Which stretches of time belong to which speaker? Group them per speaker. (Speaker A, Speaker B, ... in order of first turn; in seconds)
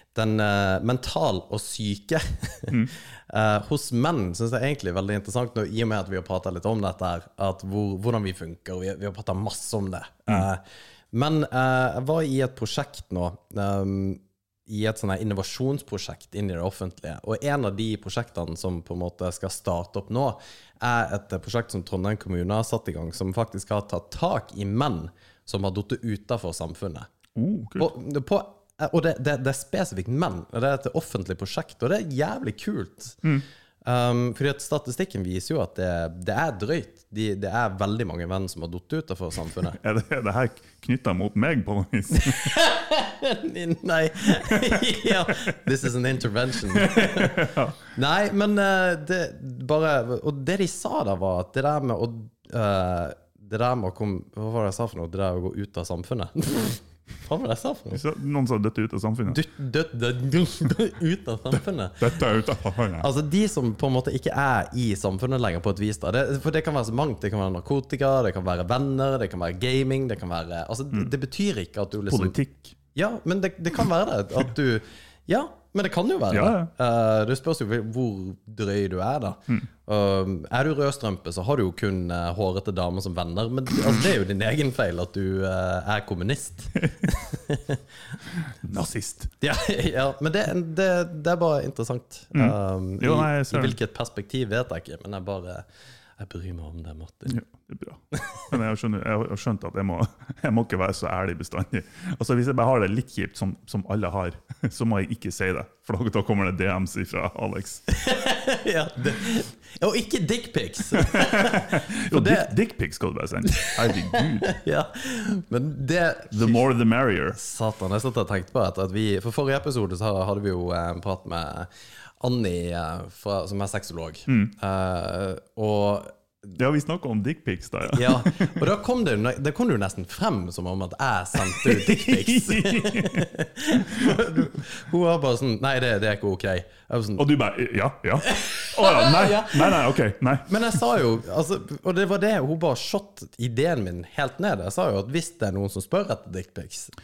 Speaker A: 0.1-27.1, 27.8-33.2, 33.8-39.8, 42.2-58.0, 59.3-62.2, 63.0-72.4, 72.9-87.8, 89.4-95.7, 96.2-97.4, 107.9-112.5, 113.5-116.6, 117.3-121.7, 122.2-126.2, 127.9-137.3, 138.2-139.8, 140.5-146.9
Speaker B: 27.4-27.9, 39.7-42.5, 44.5-45.1, 46.7-47.8, 57.9-59.4, 62.0-63.1, 72.1-72.8, 76.3-76.7, 88.5-89.3, 92.3-93.8, 97.3-107.8, 110.9-114.5, 116.3-117.4, 124.3-124.5, 126.5-128.6, 131.5-134.4, 137.2-140.5